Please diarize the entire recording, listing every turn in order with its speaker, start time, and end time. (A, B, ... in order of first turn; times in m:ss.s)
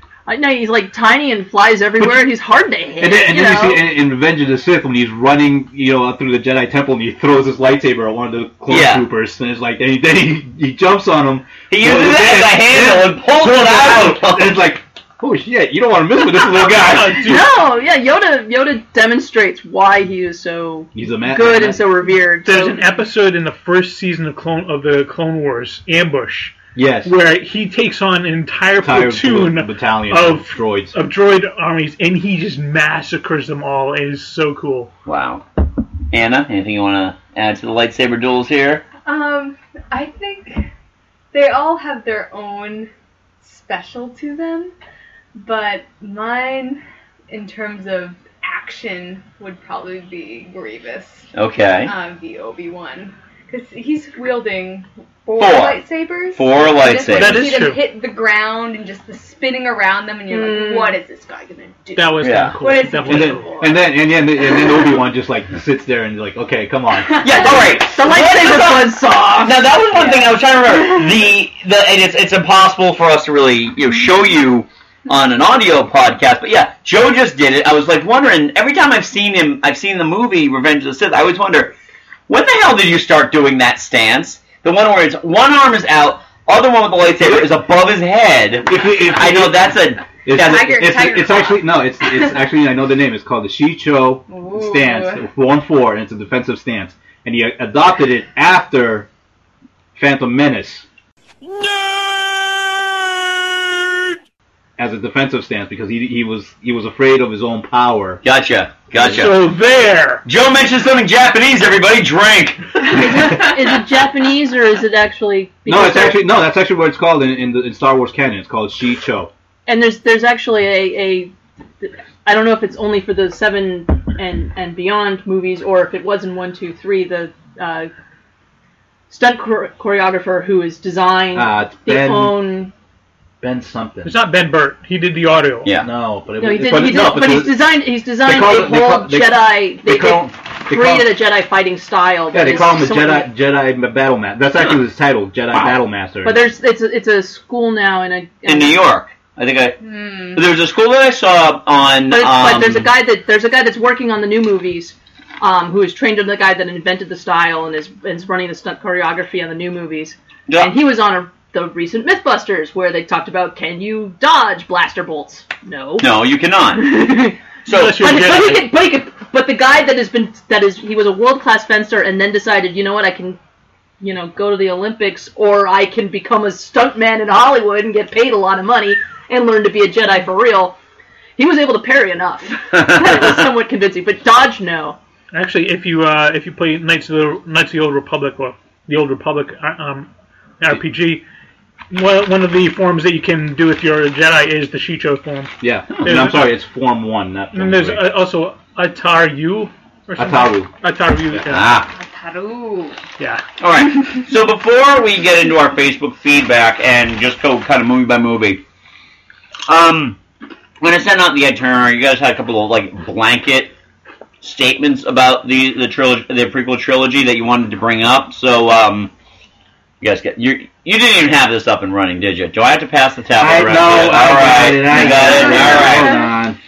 0:00.3-0:03.9 A
0:03.0-0:17.4 B
0:08.7-0:09.1 C
0:11.7-0:14.6 C
0:16.9-0:17.5 D
0:17.2-0:22.8 A
0:20.9-0:21.8 B
0:22.4-0:34.9 D
0:26.8-0:27.1 B
0:28.8-0:31.0 B
0:35.1-0:35.4 C
0:36.1-0:38.8 C
0:39.1-0:40.6 E
0:41.3-0:42.9 E
0:43.4-0:44.7 E
0:45.4-0:51.3 E
0:51.4-0:51.9 C
0:51.9-1:03.8 E
0:55.4-0:55.8 C
0:56.3-0:57.6 C
0:57.1-0:57.8 D
1:00.3-1:01.0 A
1:02.0-1:03.5 D
1:02.2-1:02.6 C
1:03.1-1:07.3 B
1:07.2-1:21.7 C
1:07.3-1:07.8 E
1:07.6-1:09.6 A
1:22.3-1:30.9 C
1:27.2-1:27.6 B
1:28.6-1:39.1 B
1:30.3-1:32.4 E
1:34.3-1:35.2 E
1:40.0-1:40.9 B
1:44.8-1:48.2 B
1:48.2-1:49.4 C
1:49.0-1:50.2 D
1:50.2-1:52.6 C
1:52.9-1:56.2 A
1:55.7-1:59.3 B
1:59.7-2:07.9 A
2:09.1-2:12.7 A
2:11.3-2:12.4 B
2:13.4-2:14.2 B
2:14.0-2:15.7 D
2:15.8-2:17.7 B
2:16.4-2:23.3 A
2:18.2-2:21.1 B
2:22.3-2:26.4 B
2:26.2-2:28.8 A
2:28.4-2:29.8 C
2:29.8-2:30.4 E
2:30.3-2:32.9 C
2:32.1-2:46.1 A
2:40.5-2:40.8 C
2:46.0-2:47.0 C
2:46.8-2:47.4 A
2:47.7-2:48.4 C
2:47.7-2:48.6 D
2:48.0-2:53.4 A
2:54.0-3:00.8 A
3:01.4-3:05.0 A
3:02.7-3:03.3 C
3:05.3-3:10.1 D
3:10.6-3:11.2 D
3:11.9-3:16.5 D
3:15.6-3:18.1 B
3:17.5-3:21.7 D
3:20.2-3:20.7 B
3:21.3-3:21.9 B
3:21.9-3:23.0 E
3:23.6-3:28.6 C
3:29.7-3:30.2 C
3:30.8-3:33.7 C
3:34.4-3:39.1 C
3:40.0-3:46.2 C
3:43.4-3:46.6 B
3:44.9-3:46.3 E